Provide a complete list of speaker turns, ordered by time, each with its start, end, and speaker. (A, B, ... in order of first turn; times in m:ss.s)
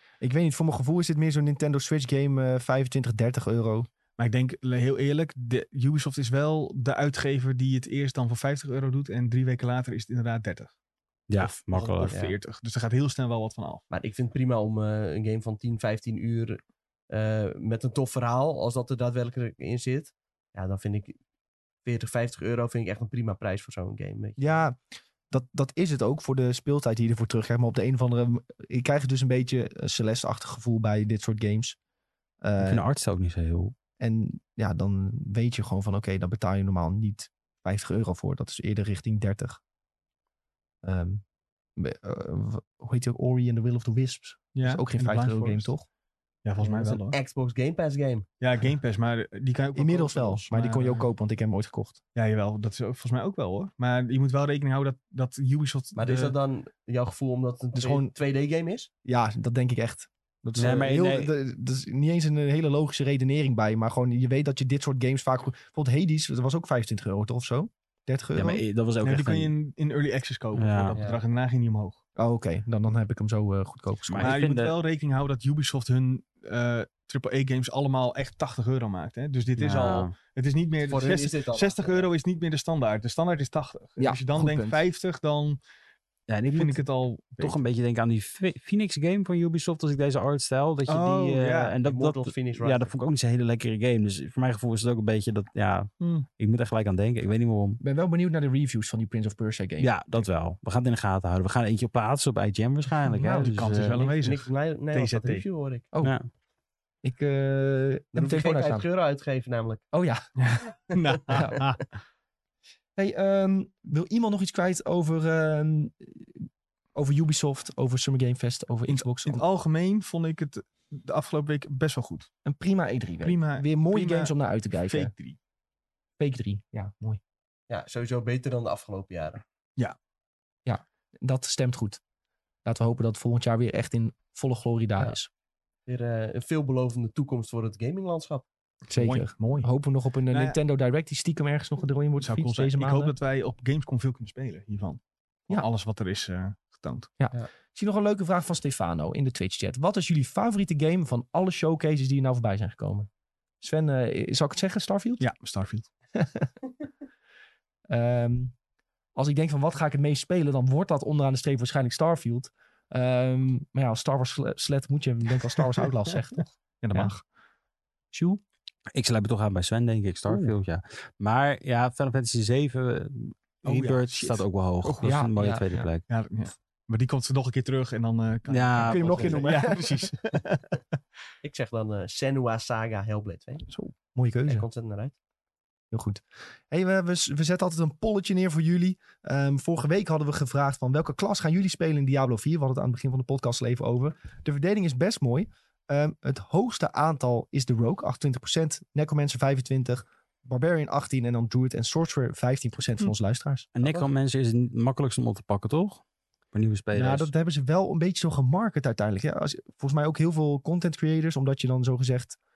0:00.2-0:03.9 A
0:04.2-0:10.7 B
0:11.3-0:12.2 C
0:11.4-0:13.8 B
0:13.9-0:21.2 D
0:21.8-0:24.4 D
0:24.4-0:24.8 A
0:25.3-0:31.8 A
0:32.4-0:32.8 A
0:32.6-0:33.7 C
0:34.0-0:39.6 A
0:40.8-0:41.2 A
0:41.8-0:45.8 A
0:44.5-0:45.7 B
0:46.4-0:47.2 B
0:46.6-0:48.3 D
0:48.4-0:51.1 B
0:49.7-0:52.0 A
0:52.1-0:56.3 B
0:55.9-0:58.9 D
0:57.7-0:58.1 A
0:59.0-1:08.6 A
1:00.5-1:01.3 C
1:08.4-1:09.5 C
1:09.0-1:12.0 B
1:10.5-1:11.0 C
1:12.2-1:14.5 A
1:14.1-1:14.7 C
1:14.2-1:25.6 B
1:19.6-1:20.1 C
1:20.8-1:22.1 D
1:24.0-1:24.8 A
1:26.3-1:26.8 C
1:26.5-1:27.6 B
1:27.4-1:37.8 C
1:30.9-1:31.8 B
1:31.8-1:32.9 D
1:36.0-1:36.3 B
1:37.8-1:40.2 A
1:39.8-1:44.1 C
1:43.1-1:43.5 A
1:43.4-1:45.4 B
1:44.0-1:45.8 D
1:47.0-1:48.8 A
1:48.1-1:49.8 D
1:49.9-1:50.2 A
1:50.4-1:51.8 B
1:50.9-1:51.2 D
1:51.3-1:51.6 A
1:53.0-1:59.4 A
1:58.9-2:02.3 B
2:02.4-2:05.1 A
2:03.2-2:04.3 B
2:04.8-2:05.4 B
2:06.2-2:07.2 A
2:07.7-2:09.4 D
2:10.6-2:12.0 A
2:12.6-2:15.3 A
2:15.9-2:18.5 D
2:18.9-2:23.1 A
2:18.9-2:19.7 B
2:20.3-2:20.6 B
2:22.2-2:27.1 B
2:27.2-2:33.1 A
2:33.6-2:35.3 A
2:35.2-2:35.9 B
2:36.1-2:36.5 A
2:37.9-2:38.5 A
2:39.1-2:47.1 A
2:46.8-2:47.2 B
2:48.1-2:48.4 A
2:48.9-2:56.0 C
2:53.6-2:55.2 B
2:55.0-2:55.9 A
2:56.1-3:00.8 B
2:58.5-2:59.5 C
2:58.8-3:00.1 A
3:01.4-3:03.6 D
3:04.1-3:04.6 A
3:04.5-3:05.1 D
3:05.9-3:24.0 A
3:23.7-3:27.3 C
3:26.9-3:32.4 A